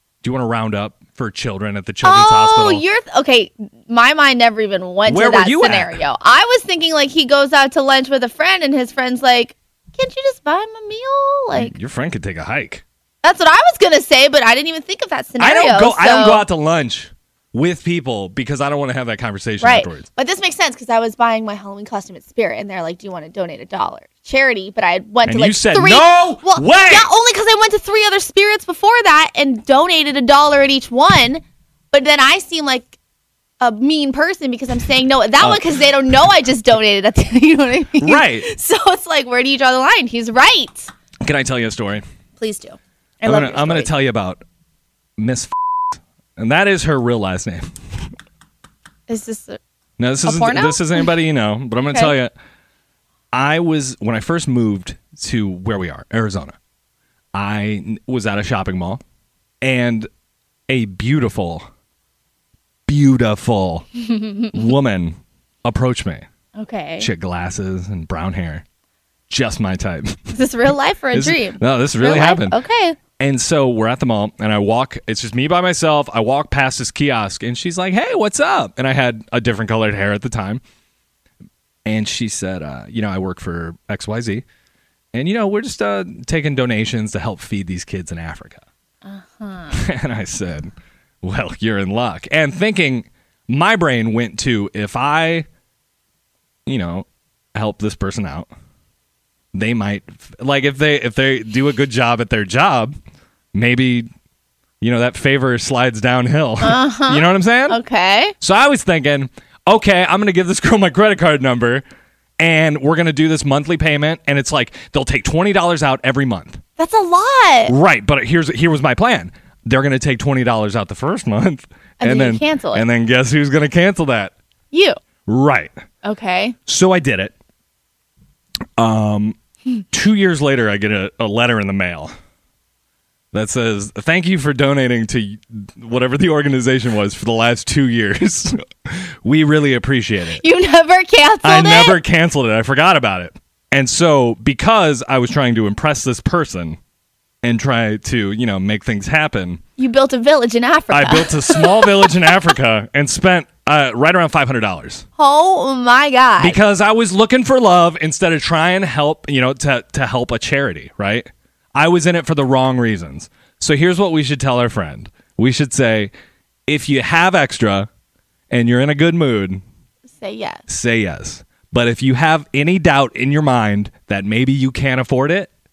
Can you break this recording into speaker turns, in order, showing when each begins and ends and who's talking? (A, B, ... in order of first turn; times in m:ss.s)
0:00.2-0:02.8 A
0:02.0-0:11.7 B
0:05.1-0:06.0 A
0:11.5-0:12.8 A
0:13.2-0:16.4 B
0:15.4-0:20.1 A
0:19.6-0:32.9 B
0:25.2-0:27.1 A
0:33.6-0:40.9 B
0:35.4-0:36.3 A
0:38.0-0:38.5 A
0:41.2-0:42.0 A
0:42.4-0:43.9 B
0:43.2-0:44.4 A
0:45.2-0:47.7 A
0:49.1-0:49.6 B
0:50.0-0:52.3 A
0:50.2-0:51.1 B
0:51.8-0:52.2 B
0:53.3-0:56.6 A
0:57.3-0:59.0 A
0:59.6-1:00.1 A
1:00.7-1:01.7 A
1:02.9-1:03.9 A
1:04.1-1:04.5 B
1:04.5-1:06.2 A
1:06.6-1:07.1 B
1:07.0-1:08.6 A
1:09.3-1:10.4 A
1:10.3-1:13.0 B
1:11.1-1:12.6 A
1:13.2-1:20.6 A
1:21.8-1:24.4 A
1:25.1-1:28.6 A
1:29.0-1:29.8 B
1:29.7-1:30.7 A
1:31.2-1:35.5 A
1:36.7-1:38.5 A
1:39.5-1:43.0 A
1:43.5-1:44.1 A
1:44.8-1:47.8 A
1:46.6-1:48.3 B
1:48.4-1:51.8 A
1:52.4-1:56.6 A
1:56.8-1:57.7 B
1:57.7-2:04.3 A
2:02.0-2:02.8 B
2:04.7-2:05.0 B
2:05.3-2:05.7 A
2:06.0-2:06.6 B
2:06.7-2:07.3 A
2:08.8-2:09.4 A
2:09.9-2:12.1 A
2:13.3-2:20.4 A
2:20.4-2:22.0 B
2:21.4-2:26.8 A
2:27.4-2:29.6 A
2:29.8-2:32.3 B
2:30.9-2:35.1 A
2:35.2-2:36.6 B
2:36.4-2:46.1 A
2:46.7-2:47.9 A
2:48.5-2:49.6 A
2:50.2-2:50.6 B
2:50.7-2:55.5 A